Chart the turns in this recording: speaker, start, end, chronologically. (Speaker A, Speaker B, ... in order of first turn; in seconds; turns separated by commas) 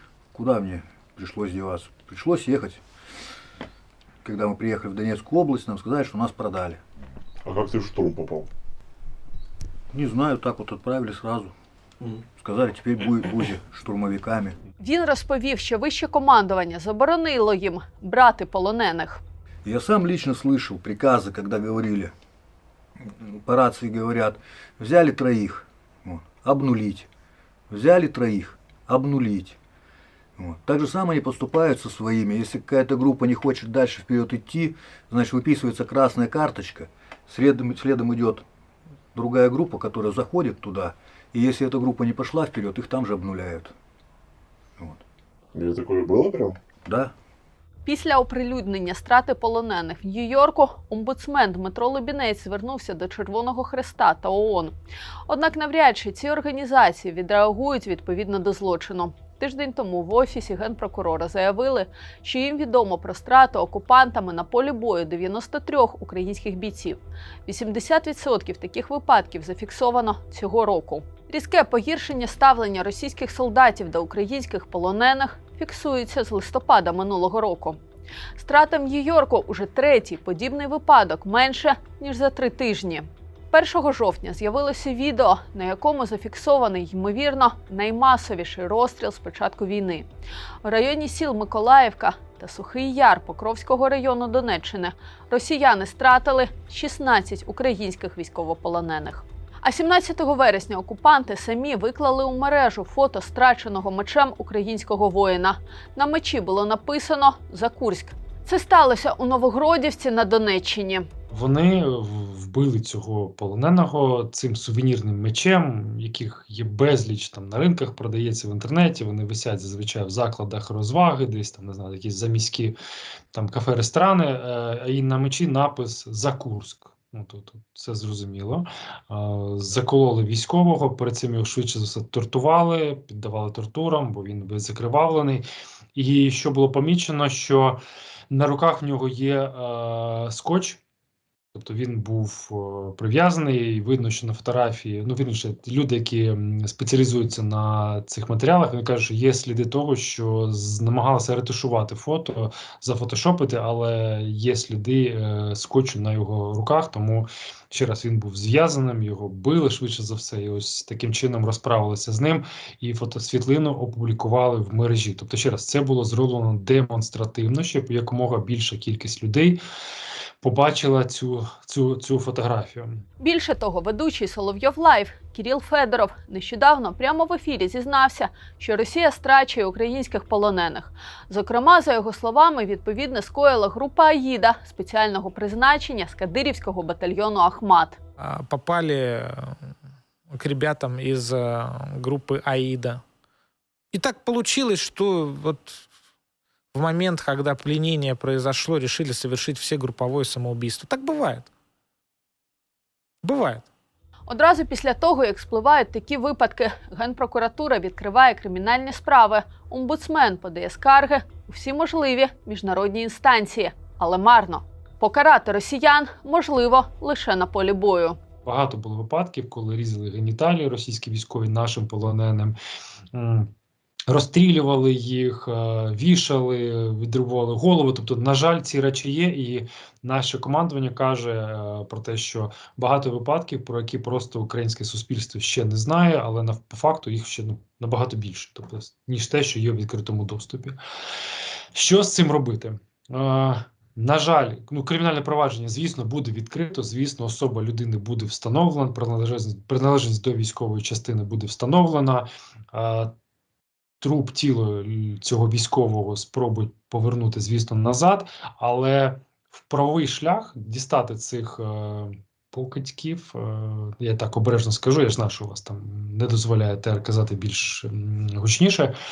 Speaker A: 0.3-2.8, Speaker A: 4.2-6.8, Speaker B: 7.4-8.5, Speaker A: 9.9-11.5, Speaker A: 12.3-14.6, Speaker C: 14.8-19.2, Speaker A: 19.6-22.1, Speaker A: 23.0-27.1, Speaker A: 27.7-29.6, Speaker A: 30.4-38.4, Speaker A: 39.1-43.7, Speaker B: 45.5-46.6, Speaker A: 46.8-47.1, Speaker C: 47.9-54.7, Speaker C: 55.3-77.8, Speaker C: 78.4-90.0, Speaker C: 90.6-111.1, Speaker D: 111.3-122.8, Speaker D: 123.3-140.8, Speaker D: 141.5-169.6, Speaker D: 170.4-173.0, Speaker C: 173.2-188.0, Speaker E: 188.2-189.7, Speaker E: 190.3-193.0, Speaker E: 193.9-195.8, Speaker E: 196.7-201.5, Speaker E: 203.2-203.6, Speaker C: 204.3-218.2, Speaker D: 218.4-222.6, Speaker D: 223.1-223.5, Speaker D: 224.1-240.8, Speaker D: 241.7-253.1, Speaker D: 254.0-268.9